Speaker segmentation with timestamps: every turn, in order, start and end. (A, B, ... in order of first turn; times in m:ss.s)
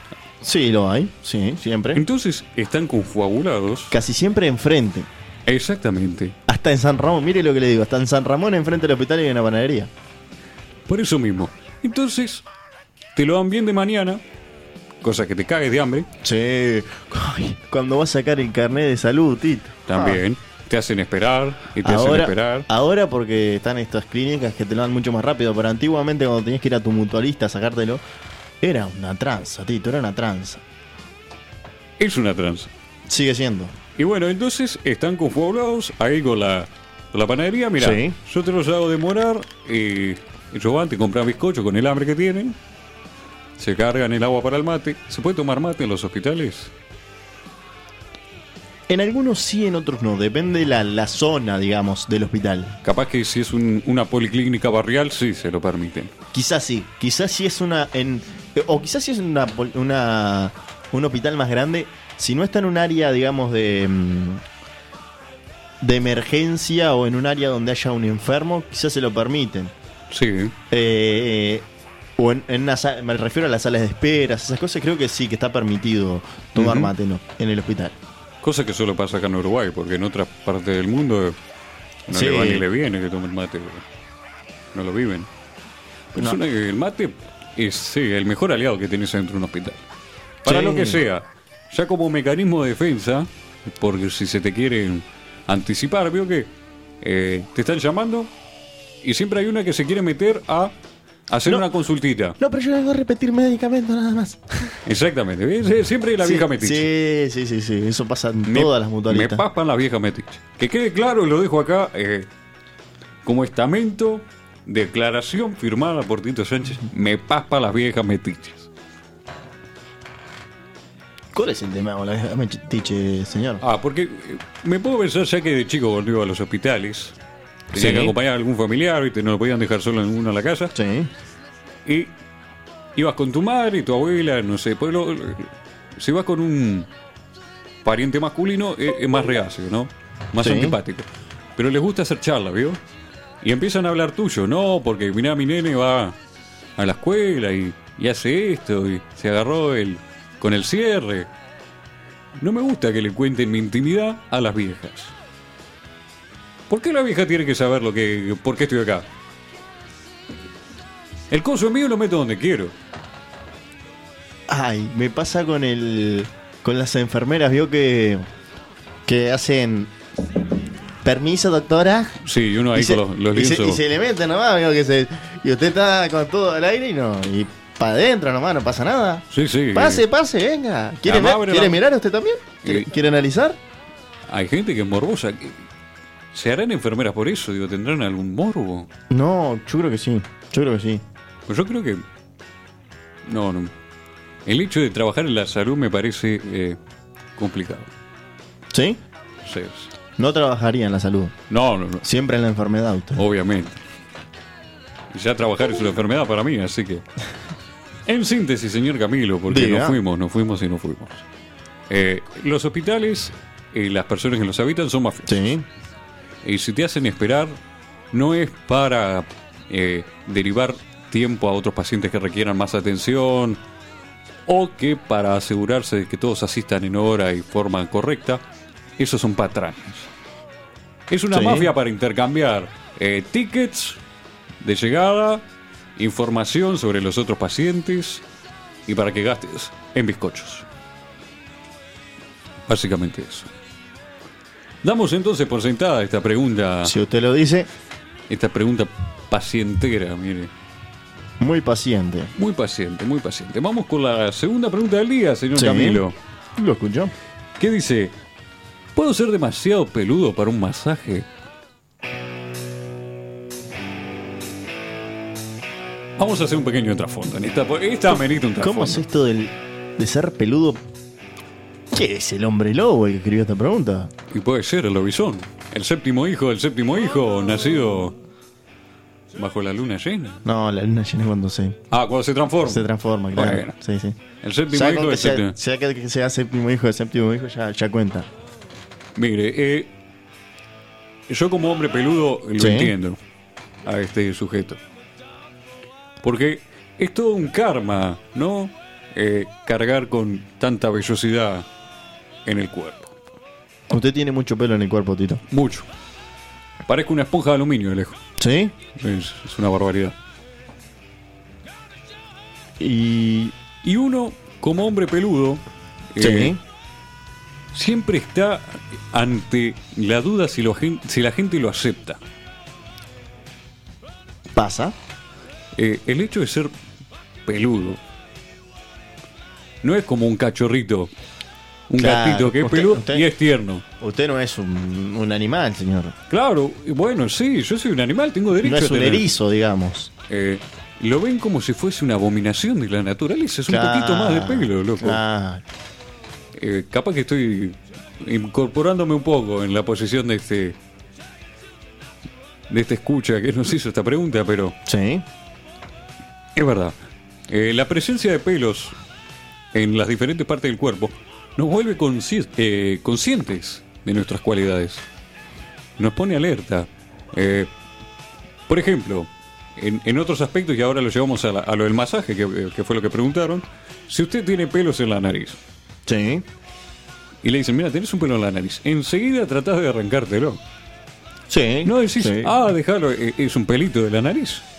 0:00.4-0:02.0 A
0:01.9-0:03.9 B
0:03.9-0:05.1 A
0:05.5-0:06.3 B
0:06.5-0:09.9 A
0:10.9-0:12.4 B
0:13.1-0:14.2 B
0:15.0-0:16.1 B
0:16.2-0:20.2 A
0:19.9-0:22.7 B
0:21.8-0:28.0 A
0:28.6-0:30.6 A
0:32.0-0:32.7 B
0:33.1-0:33.8 A
0:34.0-0:42.6 B
0:37.8-0:38.1 A
0:43.6-0:46.7 B
0:48.9-0:52.8 A
0:52.8-0:56.1 B
0:56.3-1:04.4 A
1:05.8-1:09.7 A
1:10.1-1:10.5 B
1:10.7-1:11.6 A
1:12.2-1:18.0 A
1:16.6-1:16.9 B
1:18.4-1:21.4 B
1:22.1-1:23.8 B
1:22.1-1:22.6 A
1:24.7-1:25.3 B
1:26.1-1:29.8 B
1:30.4-1:31.0 A
1:30.4-1:36.5 B
1:37.0-1:38.3 B
1:39.0-1:40.7 B
1:41.3-1:42.4 B
1:42.4-1:44.8 A
1:44.8-1:46.9 B
1:46.2-1:49.4 A
1:48.5-1:52.3 B
1:53.2-1:58.7 B
2:01.3-2:03.6 A
2:03.6-2:07.1 B
2:07.7-2:08.1 A
2:07.7-2:10.7 B
2:10.7-2:11.1 A
2:11.8-2:12.1 B
2:13.0-2:16.9 B
2:17.8-2:22.8 B
2:20.4-2:20.8 A
2:23.4-2:26.2 B
2:26.8-2:31.3 B
2:32.4-2:35.1 B
2:36.7-2:39.1 B
2:41.3-2:42.7 B
2:44.5-2:48.2 A
2:49.0-2:49.9 A
2:51.0-2:52.2 A
2:52.2-2:53.8 B
2:52.7-3:03.6 A
2:59.3-3:00.0 B
3:01.0-3:01.8 B
3:04.3-3:05.6 B
3:06.3-3:08.9 B
3:09.1-3:11.0 A
3:11.5-3:12.0 B
3:13.2-3:13.7 B
3:14.4-3:16.8 B
3:17.4-3:17.9 B
3:18.7-3:19.0 A
3:19.4-3:19.9 B
3:20.2-3:21.3 A
3:21.5-3:22.0 B
3:22.0-3:23.2 A
3:23.2-3:23.8 B
3:25.1-3:27.0 B
3:28.1-3:31.2 B
3:29.5-3:30.0 A
3:31.9-3:35.4 B
3:35.3-3:35.6 A
3:36.4-3:37.6 B
3:38.1-3:43.6 B
3:44.5-3:48.4 B
3:49.0-3:50.1 B
3:51.1-3:54.0 B
3:51.3-3:51.7 A
3:54.6-3:55.4 B
3:56.0-3:58.2 B
3:58.8-4:00.6 B
4:02.7-4:03.5 B
4:04.8-4:06.9 B
4:06.8-4:07.7 A
4:08.3-4:10.5 B
4:11.4-4:12.3 A
4:12.4-4:16.2 B
4:15.5-4:16.0 A
4:16.6-4:17.1 A
4:17.6-4:18.1 B
4:18.9-4:21.3 B
4:26.2-4:29.0 B
4:28.6-4:30.8 A
4:31.9-4:34.1 A
4:34.3-4:38.2 B
4:39.3-4:40.4 B
4:40.4-4:41.8 A
4:41.9-4:43.7 B
4:42.6-4:44.2 A
4:44.4-4:45.6 B
4:44.7-4:48.3 A
4:49.1-4:49.9 B
4:51.3-4:53.2 B
4:52.6-4:52.9 A
4:53.8-4:54.8 B
4:56.2-5:01.6 B
5:02.4-5:03.1 B
5:03.9-5:05.4 A
5:05.5-5:05.8 B
5:06.9-5:08.2 B
5:08.4-5:08.7 A
5:08.9-5:10.1 B
5:12.8-5:13.5 A
5:13.8-5:15.6 B
5:16.1-5:16.6 B
5:16.2-5:16.6 A
5:17.7-5:22.2 B
5:24.5-5:24.9 A
5:25.8-5:26.7 B
5:27.5-5:28.0 B
5:29.8-5:31.1 B
5:31.9-5:33.8 B
5:32.0-5:33.3 A
5:34.0-5:36.1 A
5:36.3-5:39.3 B
5:38.6-5:40.1 A
5:40.3-5:45.2 B
5:43.7-5:45.6 A
5:46.6-5:50.8 B
5:52.7-5:54.8 B
5:54.8-5:55.2 A
5:56.6-5:57.0 B
5:57.5-5:59.0 B
5:59.7-6:05.0 B
6:06.0-6:07.7 B
6:08.7-6:15.6 B
6:16.1-6:16.4 A
6:17.4-6:20.6 B
6:21.5-6:22.5 A
6:21.8-6:24.6 B